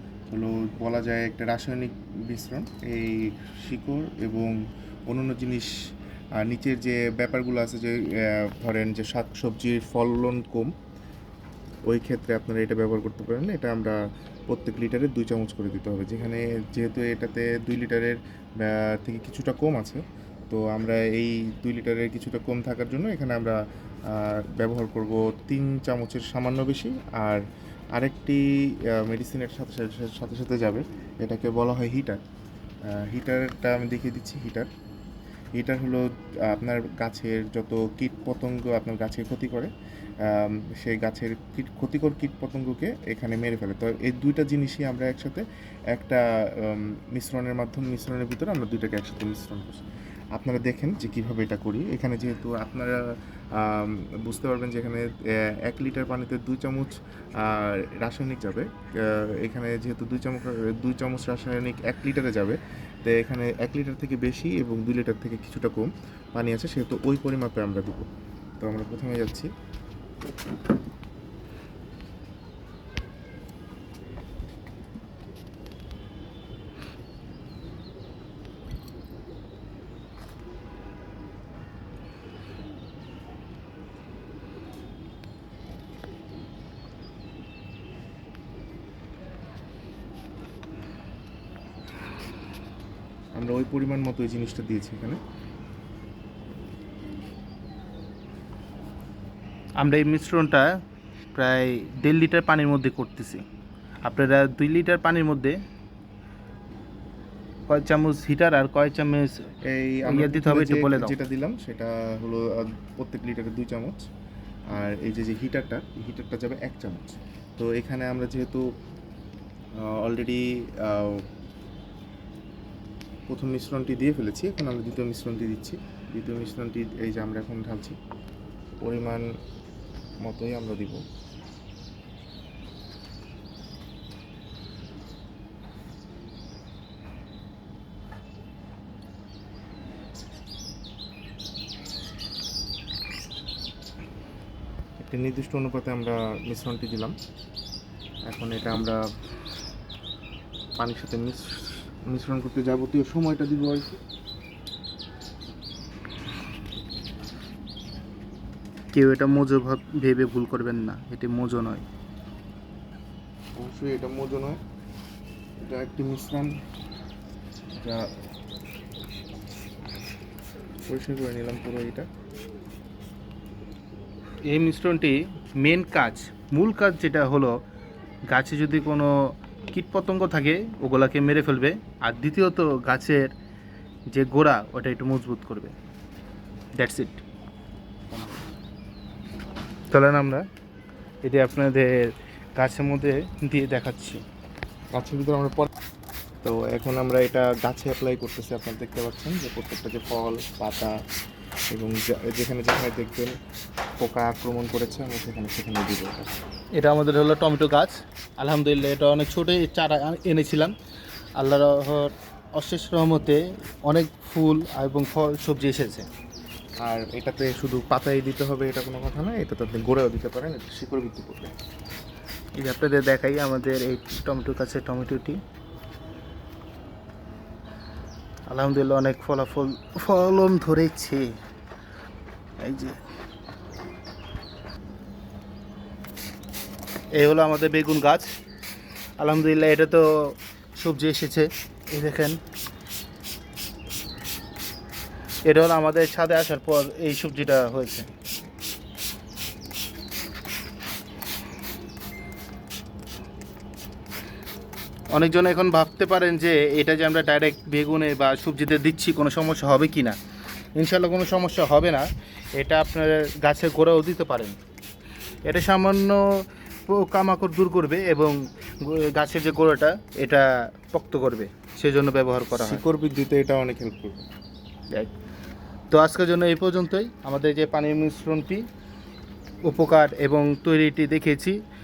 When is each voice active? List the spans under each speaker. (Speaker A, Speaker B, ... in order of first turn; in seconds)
Speaker A: 0.3-4.5, 5.1-5.7, 6.4-8.0, 8.5-10.7, 11.9-14.0, 14.5-23.6, 24.2-27.4, 27.9-28.4, 29.0-32.2, 33.0-34.7, 35.5-39.7, 40.3-49.8, 50.4-53.0, 53.6-68.0, 68.6-69.5, 93.3-95.2, 109.7-114.0, 114.7-118.6, 119.8-121.2, 123.3-128.0, 128.8-129.2, 130.2-131.0, 145.0-147.2, 148.3-149.0, 150.8-151.4, 152.1-154.0, 163.6-164.6, 165.6-166.5, 167.8-168.1, 170.9-172.1, 194.9-195.7, 196.4-200.9, 201.7-203.3, 204.0-206.4, 216.8-221.6, 272.6-274.2
Speaker B: 99.8-100.7, 101.3-103.4, 104.0-105.6, 107.7-109.5, 110.1-111.1, 158.9-161.8, 174.5-177.6, 178.3-179.2, 179.7-183.3, 184.1-185.8, 186.8-187.2, 189.9-190.4, 191.2-194.2, 206.8-210.7, 211.4-216.1, 222.6-225.4, 228.5-231.3, 232.6-233.0, 237.2-238.3, 239.2-242.4, 245.4-248.1, 255.1-260.2, 260.8-264.6, 265.4-266.2, 266.9-272.8, 275.9-278.6, 279.7-281.6